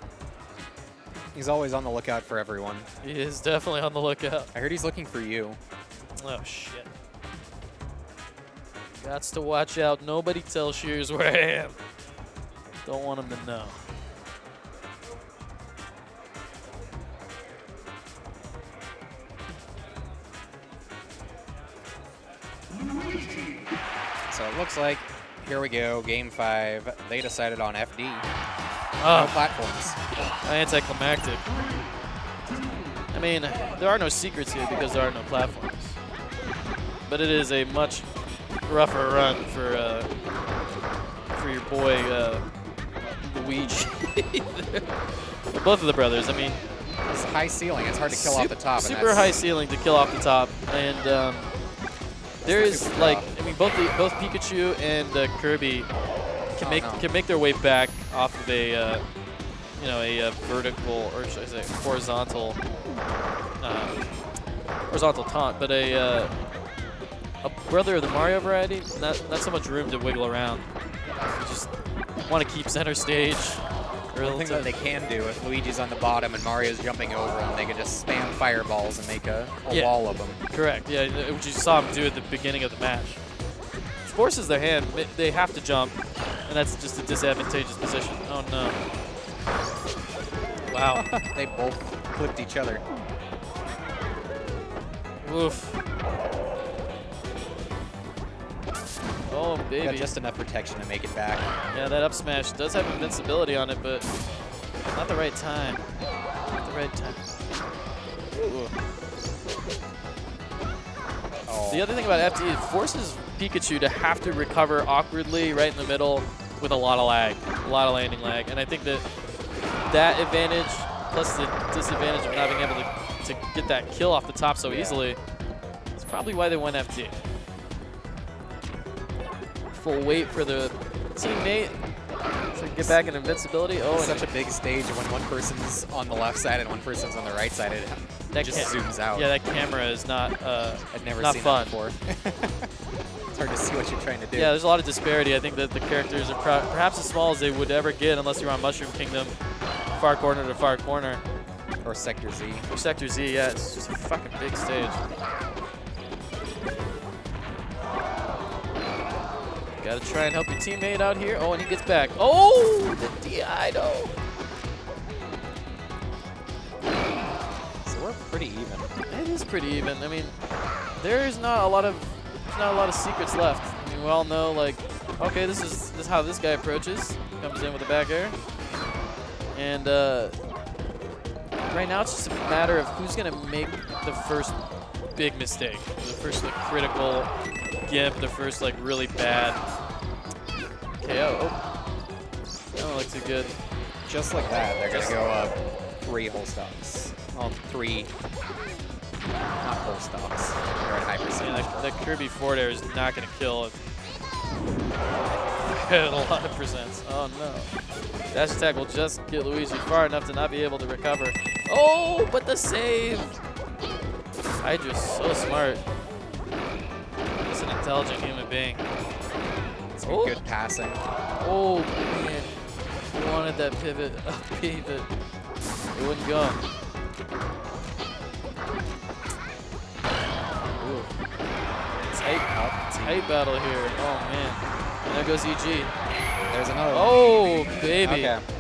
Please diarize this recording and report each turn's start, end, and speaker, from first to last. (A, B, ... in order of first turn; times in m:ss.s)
0:01.4-0:02.9 A
0:03.0-0:04.5 B
0:04.5-0:05.6 A
0:06.2-0:06.9 B
0:09.0-0:11.8 B
0:12.8-0:13.8 B
0:24.3-0:28.3 A
0:29.0-0:29.4 B
0:29.1-0:30.0 A
0:30.4-0:31.5 B
0:33.1-0:36.0 B
0:37.1-0:38.1 B
0:38.7-0:40.1 B
0:41.4-0:42.4 B
0:43.2-0:46.6 B
0:47.1-0:49.3 A
0:48.1-0:51.5 B
0:52.4-0:53.3 A
0:52.4-0:55.9 B
0:56.6-0:59.0 B
0:56.6-0:57.0 A
0:59.8-1:02.6 B
1:03.6-1:04.0 B
1:04.9-1:06.3 B
1:07.4-1:10.7 B
1:11.4-1:11.7 B
1:12.3-1:13.6 B
1:14.1-1:14.8 B
1:14.2-1:20.4 A
1:19.7-1:20.0 B
1:20.5-1:23.2 B
1:24.0-1:26.0 B
1:26.5-1:28.8 B
1:30.7-1:31.0 B
1:31.0-1:32.8 A
1:35.2-1:35.8 B
1:39.3-1:40.1 B
1:39.8-1:41.5 A
1:41.7-1:44.1 B
1:44.9-1:45.8 B
1:46.5-1:47.2 B
1:48.3-1:48.8 B
1:51.5-1:51.9 A
1:51.7-1:59.0 B
1:59.9-2:05.2 B
2:04.6-2:05.0 A
2:06.0-2:07.2 B
2:09.7-2:11.8 B
2:12.6-2:14.3 B
2:12.8-2:13.1 A
2:14.0-2:19.3 A
2:18.3-2:21.8 B
2:20.9-2:22.7 A
2:23.3-2:24.6 A
2:24.3-2:29.4 B
2:30.0-2:31.2 B
2:31.8-2:32.7 A
2:32.7-2:35.0 B
2:39.8-2:44.2 B
2:47.8-2:48.9 A
2:49.1-2:50.4 B
2:51.0-2:58.4 B
2:59.5-3:00.4 B
3:01.7-3:04.6 B
3:05.2-3:07.3 B
3:07.8-3:09.6 B
3:11.0-3:11.6 B
3:12.8-3:13.5 B
3:14.1-3:18.1 A
3:14.9-3:15.2 B
3:19.6-3:21.9 A
3:21.4-3:23.7 B
3:25.7-3:27.7 B
3:28.3-3:33.4 B
3:34.6-3:35.8 B
3:37.4-3:38.8 B
3:40.0-3:41.0 A
3:40.1-3:40.4 B
3:41.4-3:45.1 B
3:45.9-3:46.6 B
3:50.8-3:51.1 B
3:52.0-3:55.9 B
3:52.5-3:53.2 A
3:56.5-3:57.2 A
3:56.9-3:58.4 B
3:58.0-3:58.4 A